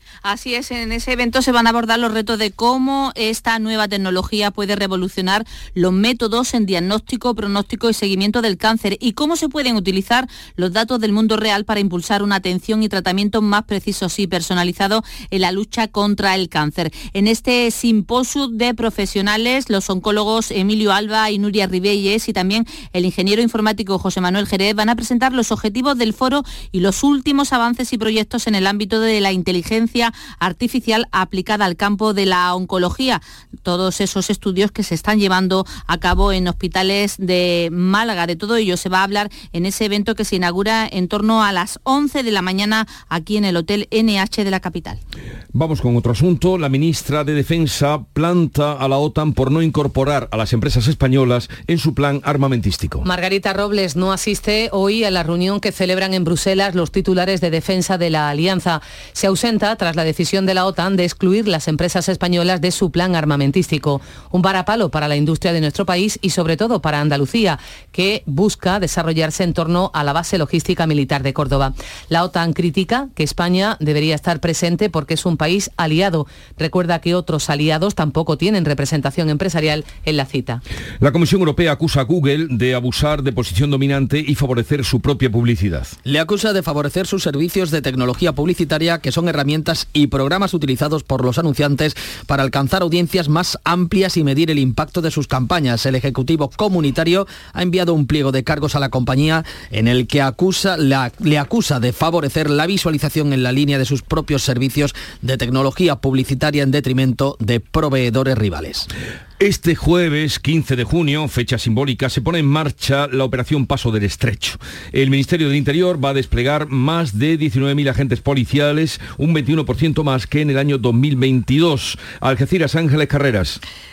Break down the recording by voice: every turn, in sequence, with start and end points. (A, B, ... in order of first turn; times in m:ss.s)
0:00.2-0:45.0 A
0:45.5-0:53.0 B
0:53.0-1:20.6 C
1:21.0-1:25.9 B
1:26.0-1:48.9 D
1:49.4-2:03.6 B